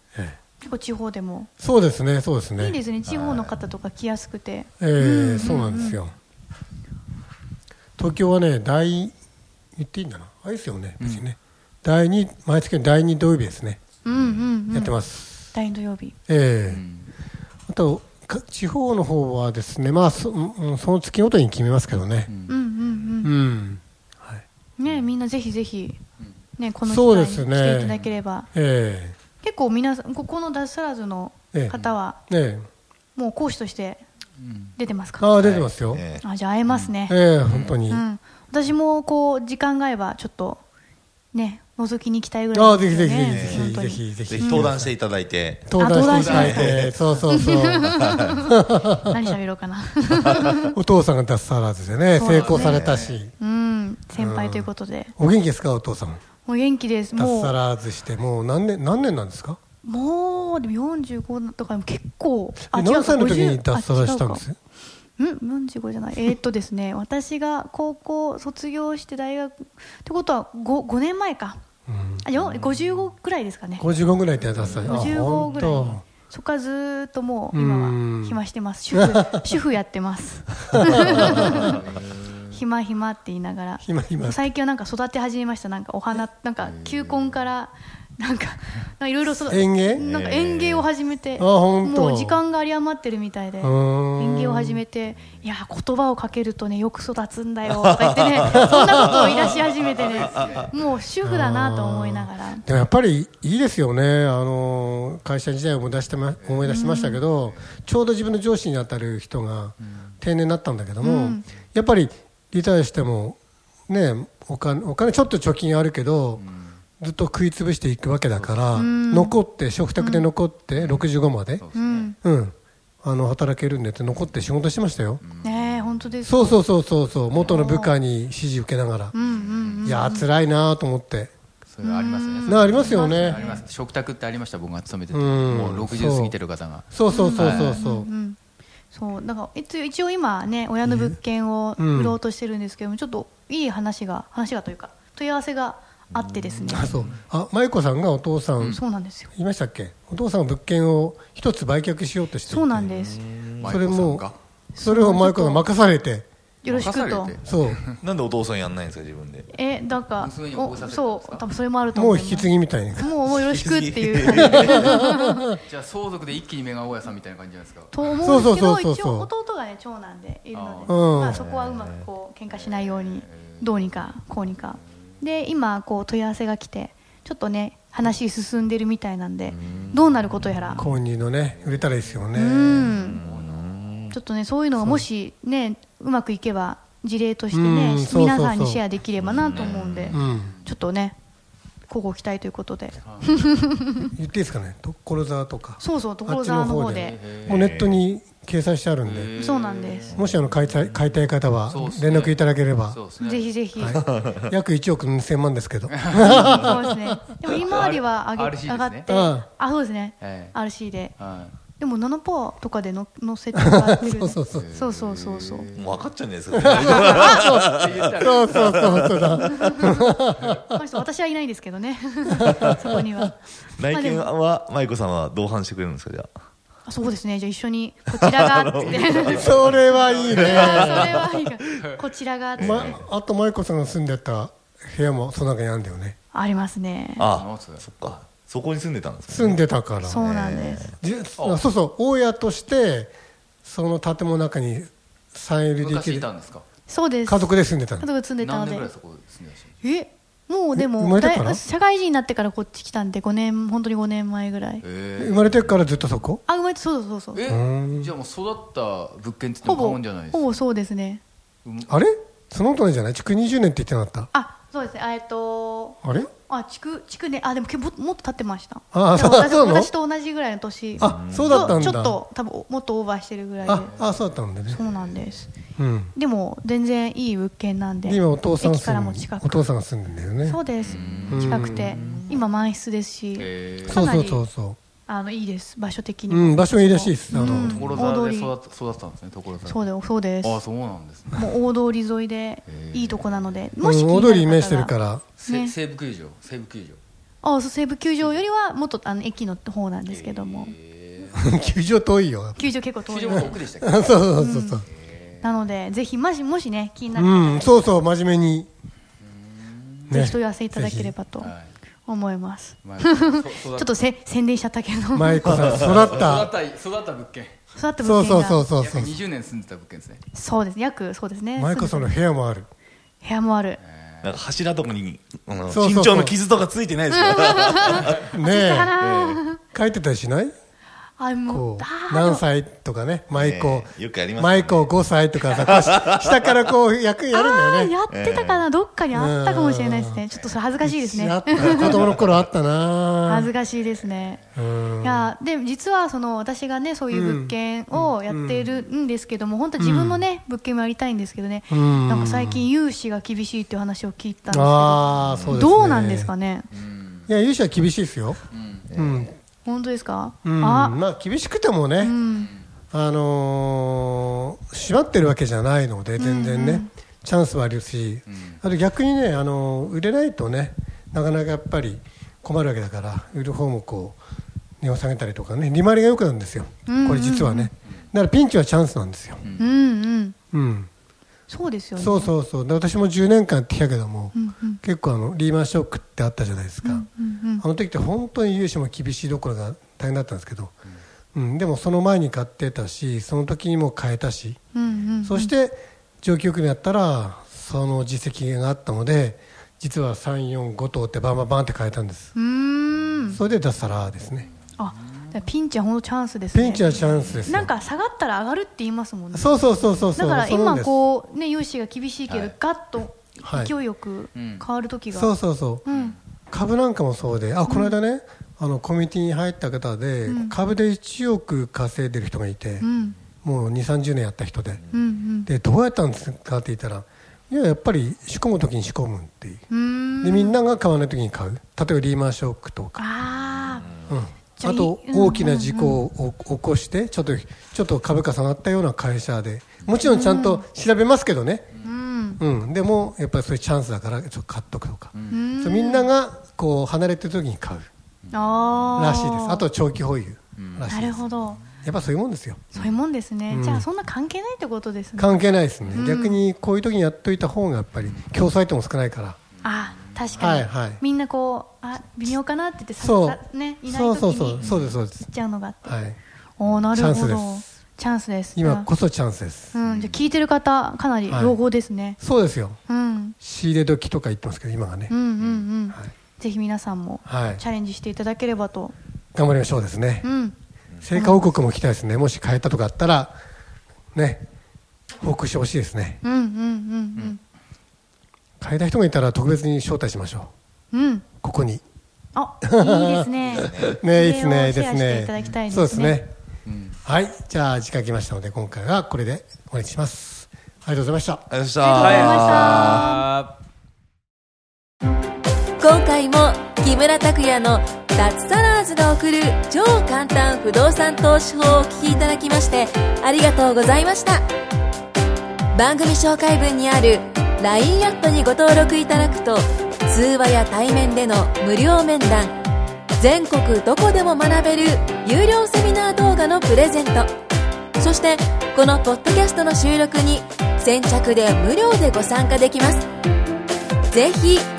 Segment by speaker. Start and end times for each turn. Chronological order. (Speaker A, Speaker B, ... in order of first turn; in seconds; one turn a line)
Speaker A: 0.6-1.5
Speaker B: 1.6-2.8
Speaker A: 2.6-6.0
Speaker C: 3.1-3.5
Speaker B: 4.8-6.1
Speaker B: 8.0-9.1
Speaker B: 9.8-13.8
Speaker A: 14.0-15.0
Speaker D: 14.1-14.5
Speaker B: 14.7-15.5
Speaker A: 15.5-16.2
Speaker B: 16.3-16.8
Speaker D: 16.7-17.1
Speaker B: 17.7-22.3
Speaker D: 22.3-22.6
Speaker A: 22.5-23.3
Speaker B: 23.2-24.4
Speaker A: 24.8-26.0
Speaker A: 26.6-28.5
Speaker B: 26.8-28.0
Speaker D: 27.9-28.2
Speaker B: 28.5-29.1
Speaker A: 29.4-32.2
Speaker D: 31.7-32.0
Speaker B: 32.3-32.7
Speaker A: 33.1-34.0
Speaker D: 34.4-34.8
Speaker A: 34.8-35.3
Speaker B: 35.2-36.0
Speaker C: 35.4-36.2
Speaker A: 36.2-37.2
Speaker B: 37.1-38.0
Speaker A: 37.9-40.6
Speaker A: 41.3-44.7
Speaker B: 42.5-44.9
Speaker C: 43.3-43.8
Speaker C: 44.3-47.0
Speaker B: 45.7-49.2
Speaker A: 45.8-46.7
Speaker D: 45.9-46.8
Speaker A: 47.3-50.8
Speaker C: 48.0-48.3
Speaker B: 50.7-53.3
Speaker A: 52.1-52.8
Speaker D: 52.2-53.2
Speaker C: 52.6-53.0
Speaker A: 53.4-55.1
Speaker B: 54.2-56.2
Speaker A: 56.5-57.6
Speaker B: 57.1-59.6
Speaker A: 59.8-64.4
Speaker B: 62.6-64.6
Speaker A: 65.2-71.6
Speaker B: 71.9-72.3
Speaker A: 72.2-73.9
Speaker B: 73.8-76.0
Speaker D: 74.5-75.1
Speaker A: 74.8-81.8
Speaker B: 77.5-79.5
Speaker B: 80.7-81.8
Speaker D: 81.3-81.9
Speaker A: 82.5-102.6
Speaker B: 83.8-84.4
Speaker D: 86.6-87.3
Speaker B: 89.3-90.0
Speaker C: 90.0-90.9
Speaker B: 91.4-92.4
Speaker B: 93.6-94.8
Speaker C: 97.8-100.7
Speaker B: 98.5-99.5
Speaker D: 99.6-100.8
Speaker B: 101.2-116.4
Speaker D: 106.4-106.8
Speaker A: 106.7-107.2
Speaker D: 107.4-107.8
Speaker A: 111.0-111.5
Speaker D: 116.4-116.8
Speaker B: 117.0-121.7
Speaker D: 118.3-118.8
Speaker A: 118.8-119.4
Speaker A: 120.0-120.3
Speaker D: 120.8-122.1
Speaker A: 121.7-122.2
Speaker B: 122.2-125.2
Speaker D: 125.2-126.2
Speaker A: 125.4-126.6
Speaker B: 126.2-129.2
Speaker D: 127.3-127.6
Speaker A: 127.4-128.0
Speaker A: 129.1-130.3
Speaker D: 129.2-130.0
Speaker B: 129.8-131.3
Speaker D: 131.7-137.8
Speaker A: 131.8-133.6
Speaker B: 132.5-133.4
Speaker B: 135.1-136.3
Speaker B: 136.9-138.1
Speaker A: 137.1-138.4
Speaker A: 138.9-146.9
Speaker B: 140.8-141.2
Speaker B: 141.8-142.2
Speaker C: 146.1-147.1
Speaker B: 146.7-152.9
Speaker A: 148.7-149.3
Speaker A: 152.5-153.2
Speaker C: 152.9-153.8
Speaker D: 153.6-154.4
Speaker B: 153.6-154.3
Speaker A: 154.7-155.7
Speaker B: 154.8-156.3
Speaker A: 156.6-157.4
Speaker D: 156.7-158.0
Speaker B: 157.4-157.9
Speaker C: 158.0-159.5
Speaker A: 159.5-165.6
Speaker D: 160.2-161.5
Speaker B: 161.9-163.1
Speaker C: 163.3-165.0
Speaker B: 164.2-165.5
Speaker D: 165.7-167.9
Speaker A: 167.9-180.8
Speaker B: 168.2-169.3
Speaker D: 170.5-171.3
Speaker B: 170.9-171.5
Speaker C: 171.3-172.1
Speaker D: 172.5-174.1
Speaker C: 179.5-180.1
Speaker D: 179.7-180.9
Speaker B: 180.8-182.9
Speaker D: 181.5-184.1
Speaker A: 182.3-183.2
Speaker C: 182.7-184.2
Speaker A: 184.1-191.2
Speaker B: 184.8-185.0
Speaker B: 187.5-188.8
Speaker C: 189.2-190.2
Speaker D: 189.2-190.7
Speaker B: 190.1-190.5
Speaker A: 191.9-194.1
Speaker D: 193.0-193.4
Speaker B: 194.0-199.3
Speaker A: 195.8-197.2
Speaker D: 197.0-197.7
Speaker C: 197.5-198.0
Speaker D: 199.0-200.4
Speaker A: 199.4-200.1
Speaker B: 200.1-203.0
Speaker D: 201.7-203.5
Speaker A: 203.2-204.0
Speaker B: 203.8-207.1
Speaker C: 204.2-204.4
Speaker D: 206.0-206.6
Speaker A: 206.2-211.2
Speaker D: 207.7-209.1
Speaker B: 209.1-209.5
Speaker D: 210.2-210.6
Speaker D: 211.2-211.6
Speaker A: 211.8-215.7
Speaker B: 213.6-214.7
Speaker D: 214.5-216.1
Speaker C: 215.7-219.3
Speaker B: 216.5-220.7
Speaker D: 216.6-219.0
Speaker A: 219.4-223.4
Speaker B: 222.4-223.1
Speaker C: 223.8-226.3
Speaker A: 223.9-224.3
Speaker A: 226.9-233.0
Speaker C: 228.2-231.4
Speaker B: 229.2-231.3
Speaker C: 232.6-233.1
Speaker B: 232.6-236.2
Speaker A: 236.3-237.3
Speaker C: 237.2-239.6
Speaker D: 237.3-237.9
Speaker B: 239.3-240.2
Speaker A: 240.0-240.9
Speaker C: 240.2-240.9
Speaker B: 241.0-243.1
Speaker D: 241.4-241.7
Speaker B: 243.6-246.3
Speaker D: 245.8-246.7
Speaker A: 246.9-248.9
Speaker B: 247.3-248.1
Speaker D: 248.4-249.7
Speaker A: 249.8-254.8
Speaker B: 250.8-251.6
Speaker D: 254.8-256.2
Speaker B: 255.2-256.4
Speaker A: 256.5-257.4
Speaker D: 257.3-260.5
Speaker B: 257.5-258.1
Speaker A: 259.6-261.2
Speaker D: 261.6-261.9
Speaker B: 261.9-264.3
Speaker A: 264.3-273.9
Speaker B: 266.0-266.3
Speaker B: 268.9-269.9
Speaker C: 271.0-271.8
Speaker B: 271.0-272.2
Speaker D: 273.6-275.1
Speaker B: 273.6-274.8
Speaker A: 274.7-275.5
Speaker B: 275.8-276.1
Speaker A: 276.1-279.7
Speaker B: 278.1-280.6
Speaker A: 280.4-284.4
Speaker D: 280.8-282.4
Speaker B: 281.3-282.1
Speaker D: 283.4-284.1
Speaker B: 283.9-284.8
Speaker A: 285.1-288.5
Speaker B: 286.3-288.0
Speaker D: 287.3-289.9
Speaker A: 289.6-290.7
Speaker D: 290.4-291.5
Speaker A: 291.3-294.9
Speaker D: 292.7-293.5
Speaker B: 293.8-295.2
Speaker D: 295.4-297.0
Speaker A: 295.5-295.7
Speaker A: 297.4-300.8
Speaker D: 300.1-301.4
Speaker B: 301.3-302.6
Speaker A: 302.6-303.6
Speaker D: 303.1-304.3
Speaker B: 303.3-304.9
Speaker A: 304.4-304.8
Speaker D: 304.9-305.5
Speaker A: 305.4-308.0
Speaker B: 307.1-308.7
Speaker D: 309.5-310.1
Speaker B: 310.1-311.1
Speaker A: 310.1-311.5
Speaker D: 311.4-311.7
Speaker A: 312.1-315.8
Speaker D: 312.8-313.9
Speaker B: 315.1-316.5
Speaker D: 315.8-317.6
Speaker A: 317.8-318.7
Speaker B: 318.0-319.1
Speaker D: 318.8-320.2
Speaker A: 320.3-322.1
Speaker B: 321.6-322.7
Speaker A: 323.2-323.8
Speaker D: 323.8-324.4
Speaker C: 324.2-328.3
Speaker B: 325.7-326.4
Speaker A: 327.1-329.6
Speaker B: 328.2-328.9
Speaker C: 329.0-329.4
Speaker B: 329.7-330.5
Speaker A: 331.2-332.4
Speaker B: 331.5-337.9
Speaker C: 333.3-334.9
Speaker C: 335.5-336.4
Speaker A: 337.3-342.1
Speaker C: 338.1-338.7
Speaker B: 339.1-340.2
Speaker B: 340.8-343.5
Speaker D: 341.8-342.1
Speaker A: 343.3-344.4
Speaker D: 344.1-344.4
Speaker B: 344.6-345.3
Speaker A: 345.0-356.7
Speaker B: 347.1-348.8
Speaker B: 349.8-350.2
Speaker B: 351.7-352.7
Speaker B: 354.5-356.3
Speaker C: 355.3-355.6
Speaker D: 356.7-357.3
Speaker B: 357.3-358.4
Speaker D: 358.5-358.9
Speaker B: 358.9-359.4
Speaker A: 359.6-361.0
Speaker B: 360.4-362.2
Speaker A: 362.0-362.5
Speaker D: 362.2-362.6
Speaker B: 362.9-374.2
Speaker A: 366.2-366.9
Speaker D: 368.3-368.6
Speaker B: 374.8-379.4
Speaker A: 376.9-377.7
Speaker D: 379.4-379.7
Speaker A: 379.6-380.4
Speaker B: 380.5-380.9
Speaker A: 381.5-382.3
Speaker B: 382.0-387.1
Speaker A: 384.3-384.8
Speaker A: 386.8-387.6
Speaker B: 387.6-390.7
Speaker B: 391.3-394.6
Speaker A: 394.7-395.5
Speaker B: 395.2-402.3
Speaker A: 402.4-403.4
Speaker B: 403.3-404.5
Speaker A: 404.8-406.9
Speaker B: 406.5-407.7
Speaker D: 406.9-407.5
Speaker A: 407.4-415.3
Speaker B: 409.3-411.0
Speaker D: 412.3-412.5
Speaker B: 413.4-413.7
Speaker D: 414.4-414.6
Speaker B: 415.1-415.9
Speaker A: 415.9-416.1
Speaker D: 415.9-416.2
Speaker B: 416.5-422.9
Speaker A: 417.7-418.0
Speaker A: 420.3-420.6
Speaker A: 422.8-423.2
Speaker B: 423.4-424.8
Speaker A: 424.9-425.5
Speaker B: 425.5-429.6
Speaker A: 429.7-430.6
Speaker B: 430.2-433.0
Speaker A: 433.0-433.9
Speaker B: 434.1-441.7
Speaker A: 434.6-436.1
Speaker A: 440.0-440.6
Speaker A: 441.8-442.4
Speaker B: 442.4-447.9
Speaker D: 445.1-445.4
Speaker A: 445.3-446.1
Speaker D: 448.3-449.2
Speaker A: 448.3-449.7
Speaker B: 448.9-451.2
Speaker D: 450.6-451.4
Speaker A: 450.9-451.6
Speaker B: 451.8-452.7
Speaker A: 452.7-456.5
Speaker B: 453.5-453.9
Speaker B: 455.2-459.4
Speaker A: 459.6-466.1
Speaker D: 459.6-460.2
Speaker B: 460.4-461.0
Speaker B: 463.0-465.3
Speaker D: 464.6-465.0
Speaker B: 465.8-466.2
Speaker A: 466.6-468.9
Speaker B: 466.9-467.6
Speaker B: 468.6-469.7
Speaker A: 469.7-472.2
Speaker D: 469.8-470.2
Speaker B: 471.3-471.6
Speaker B: 472.2-472.8
Speaker A: 472.9-473.4
Speaker B: 473.4-475.1
Speaker A: 475.1-478.9
Speaker B: 477.3-477.6
Speaker B: 479.4-480.3
Speaker A: 480.2-480.6
Speaker B: 481.0-483.4
Speaker A: 481.1-481.5
Speaker B: 484.1-484.4
Speaker B: 485.2-486.2
Speaker A: 486.2-487.4
Speaker B: 488.6-490.5
Speaker A: 490.9-491.3
Speaker B: 491.4-491.8
Speaker A: 492.4-496.2
Speaker B: 492.6-496.3
Speaker C: 493.5-494.0
Speaker D: 496.6-497.0
Speaker B: 497.1-501.5
Speaker C: 501.5-503.1
Speaker A: 501.8-503.2
Speaker D: 502.0-503.5
Speaker E: 506.5-506.8
Speaker E: 510.7-511.2
Speaker E: 513.8-514.4
Speaker E: 515.8-517.2
Speaker E: 517.8-518.1
Speaker E: 518.6-519.6
Speaker E: 520.7-522.5
Speaker E: 523.6-525.1
Speaker E: 526.6-527.2
Speaker E: 529.4-530.4
Speaker E: 531.3-533.0